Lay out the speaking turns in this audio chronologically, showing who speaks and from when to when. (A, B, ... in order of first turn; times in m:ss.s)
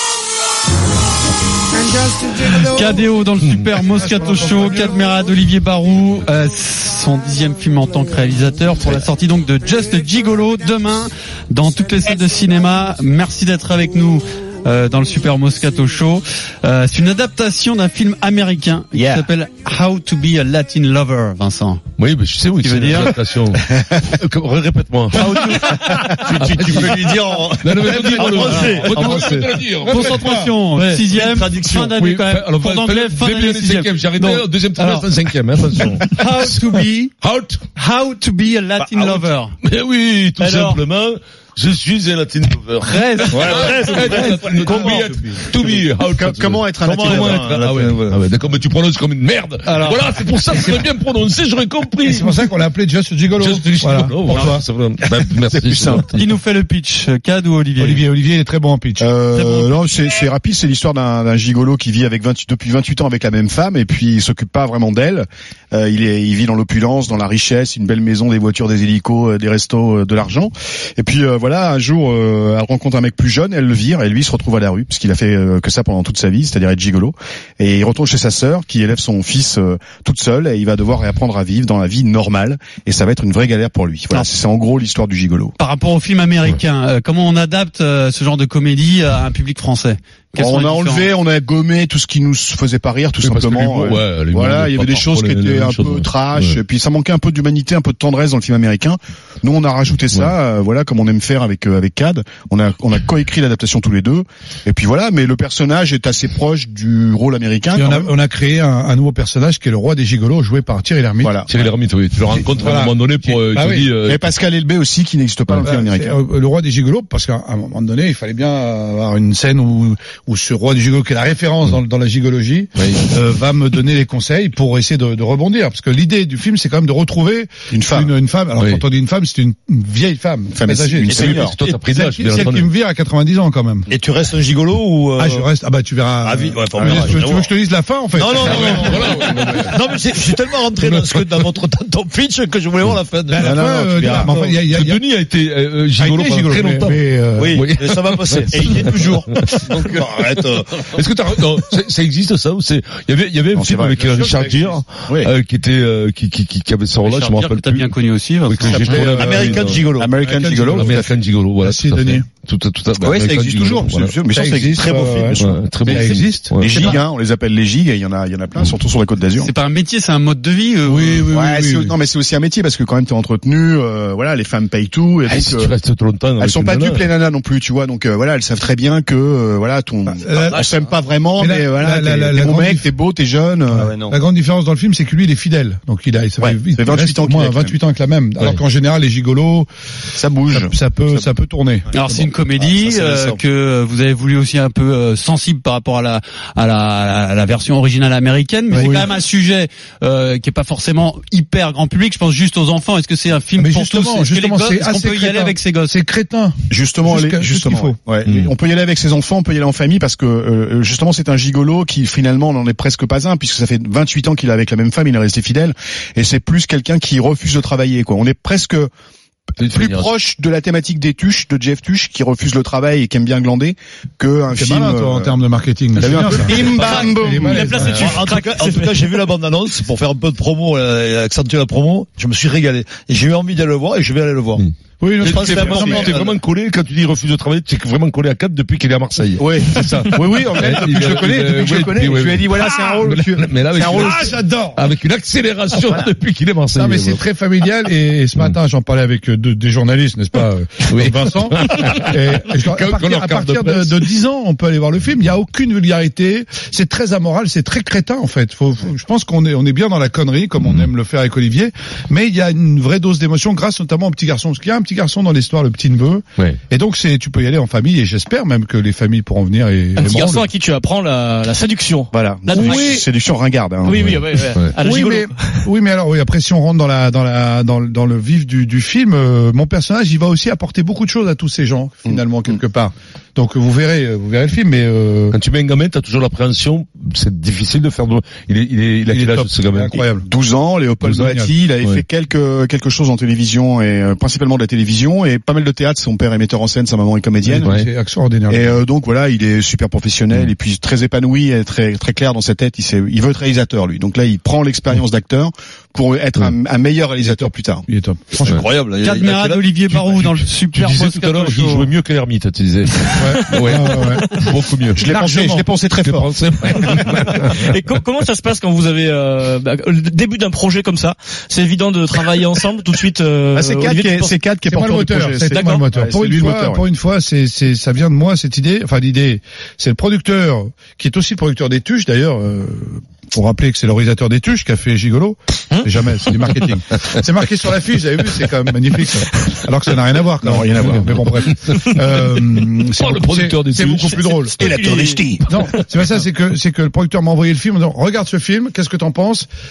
0:01.9-0:03.1 A
0:02.6-0:21.8 B
0:03.4-0:03.7 C
0:03.9-0:05.1 A
0:18.9-0:19.3 D
0:22.0-0:25.6 C
0:22.6-0:23.2 B
0:23.7-0:24.0 D
0:25.2-0:25.9 B
0:25.3-0:26.4 D
0:25.4-0:29.4 E
0:26.2-0:30.2 C
0:28.0-0:29.1 A
0:28.4-0:35.1 B
0:29.0-0:29.3 D
0:29.8-0:30.5 A
0:30.8-0:32.0 E
0:32.0-0:37.6 C
0:36.0-0:37.1 B
0:37.8-0:39.6 B
0:39.6-0:52.4 C
0:40.4-0:40.8 F
0:42.8-0:45.1 B
0:43.3-0:44.9 E
0:44.9-0:45.4 A
0:46.1-0:47.7 D
0:46.8-0:48.2 E
0:52.0-0:54.6 A
0:53.4-0:56.3 C
0:55.2-0:56.1 D
0:56.2-0:58.0 B
0:57.8-0:59.1 A
0:59.0-1:25.5 D
1:25.6-1:31.1 B
1:30.4-1:48.1 D
1:33.2-1:36.6 C
1:47.7-1:51.3 A
1:51.2-1:51.5 D
1:51.5-1:54.2 C
1:52.6-1:53.9 A
1:54.0-1:56.2 D
1:55.6-2:13.9 A
2:02.8-2:03.0 C
2:07.7-2:08.1 D
2:10.5-2:11.6 D
2:11.1-2:12.7 C
2:13.9-2:15.5 E
2:15.2-2:19.7 A
2:16.2-2:17.5 E
2:18.2-2:24.4 E
2:18.4-2:19.8 C
2:20.8-2:21.3 C
2:23.3-2:25.0 A
2:23.4-2:24.4 D
2:24.7-2:27.0 C
2:26.0-2:27.6 A
2:27.4-2:31.0 E
2:27.5-2:30.0 C
2:30.9-2:37.9 C
2:33.5-2:34.2 D
2:33.9-2:34.8 A
2:35.1-2:35.3 D
2:37.0-2:38.8 B
2:38.5-2:39.9 C
2:38.7-2:41.1 D
2:38.7-2:41.1 A
2:38.9-2:40.6 E
2:40.7-2:44.2 C
2:41.6-2:42.2 A
2:43.0-2:49.5 D
2:44.3-2:47.0 A
2:45.4-2:47.0 C
2:49.4-2:51.3 B
2:50.8-2:52.0 A
2:51.3-2:55.7 D
2:55.3-2:57.1 C
2:56.4-3:04.2 D
3:00.2-3:00.7 A
3:01.4-3:02.9 A
3:03.7-3:09.7 A
3:06.4-3:07.7 D
3:10.2-3:11.3 D
3:10.5-3:11.9 A
3:11.9-3:25.9 B
3:12.6-3:13.4 D
3:18.7-3:19.1 A
3:23.6-3:28.0 A
3:26.7-3:38.9 D
3:39.6-3:40.1 C
3:39.6-3:45.3 D
3:44.5-3:48.1 A
3:46.0-3:47.6 D
3:46.7-3:49.2 F
3:47.8-3:54.6 E
3:55.0-3:56.2 A
3:55.2-3:56.3 E
3:55.2-4:07.2 C
3:59.4-4:04.2 D
4:00.2-4:01.7 A
4:03.8-4:04.8 A
4:06.8-4:30.5 A
4:10.9-4:14.1 C
4:30.0-4:33.0 F
4:32.1-4:34.4 D
4:32.5-4:33.0 A
4:33.8-4:35.6 F
4:34.8-4:45.4 A
4:45.3-4:50.0 C
4:49.1-4:50.3 A
4:50.2-4:57.7 D
4:51.1-4:51.5 A
4:57.4-4:58.8 A
4:58.5-5:07.8 D
5:07.2-5:08.6 A
5:08.4-5:09.8 E
5:09.0-5:11.9 B
5:10.6-5:15.0 C
5:13.2-5:14.4 A
5:15.0-5:17.0 D
5:15.0-5:15.7 A
5:16.0-5:17.8 C
5:16.9-5:24.3 F
5:23.6-5:26.8 D
5:24.7-5:44.7 A
5:25.5-5:25.8 F
5:40.4-5:41.4 D
5:41.7-5:44.3 C
5:44.4-5:45.4 F
5:44.6-5:45.4 D
5:45.5-5:49.5 A